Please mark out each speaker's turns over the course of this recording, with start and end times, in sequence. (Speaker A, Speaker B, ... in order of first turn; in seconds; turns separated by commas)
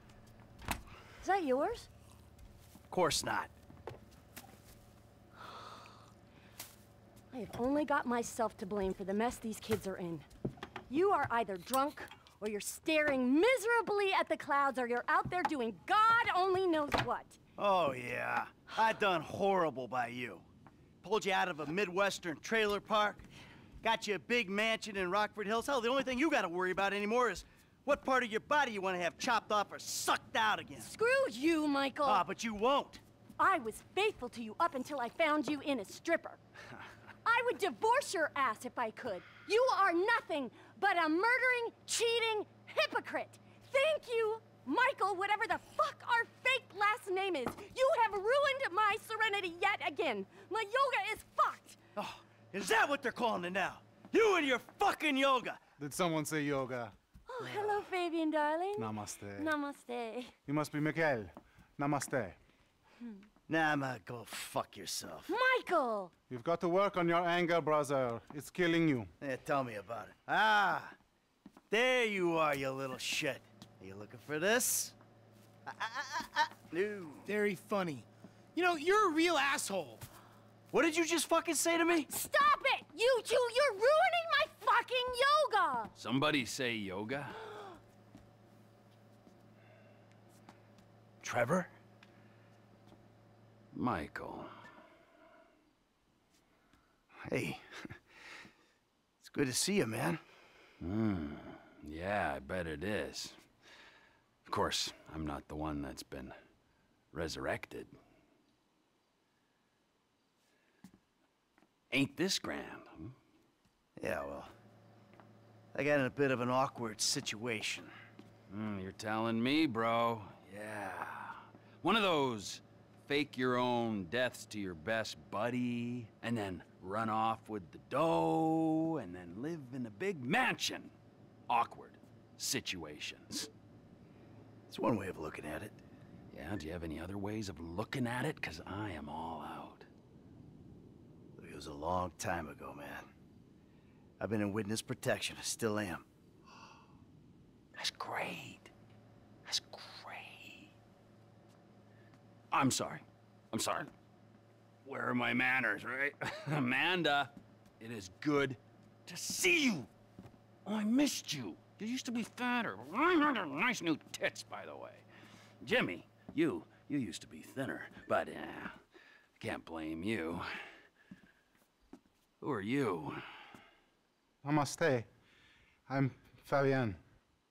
Speaker A: 1.2-1.9, Speaker B: 2.9-3.5, Speaker A: 7.3-10.2, Speaker A: 10.9-17.4, Speaker B: 17.6-20.4, Speaker B: 21.0-23.3, Speaker B: 23.8-30.9, Speaker A: 30.8-32.2, Speaker B: 32.0-33.0, Speaker A: 33.4-36.4, Speaker A: 37.2-51.8, Speaker B: 52.0-55.6, Speaker C: 55.8-56.9, Speaker A: 57.3-60.3, Speaker C: 58.8-59.5, Speaker C: 60.5-62.4, Speaker B: 63.5-65.3, Speaker A: 65.3-66.1, Speaker C: 66.3-69.1, Speaker B: 69.2-71.0, Speaker B: 71.7-74.9, Speaker B: 75.7-77.3, Speaker D: 77.2-80.0, Speaker B: 80.7-82.1, Speaker A: 82.1-85.9, Speaker E: 86.0-87.4, Speaker B: 91.2-91.7, Speaker E: 93.7-94.5, Speaker B: 97.2-98.0, Speaker B: 99.2-100.2, Speaker E: 100.8-103.4, Speaker E: 104.4-106.3, Speaker E: 107.1-107.9, Speaker E: 111.9-113.1, Speaker B: 114.0-114.5, Speaker B: 115.7-117.9, Speaker E: 118.5-130.9, Speaker E: 131.5-133.5, Speaker B: 134.7-135.8, Speaker E: 136.3-139.9, Speaker B: 141.4-143.1, Speaker B: 144.2-146.1, Speaker E: 147.8-148.7, Speaker E: 149.4-150.7, Speaker E: 152.5-153.9, Speaker E: 154.8-159.9, Speaker E: 160.6-165.0, Speaker E: 165.6-168.8, Speaker E: 169.4-170.4, Speaker E: 172.4-173.2, Speaker C: 174.4-175.1, Speaker C: 175.9-177.0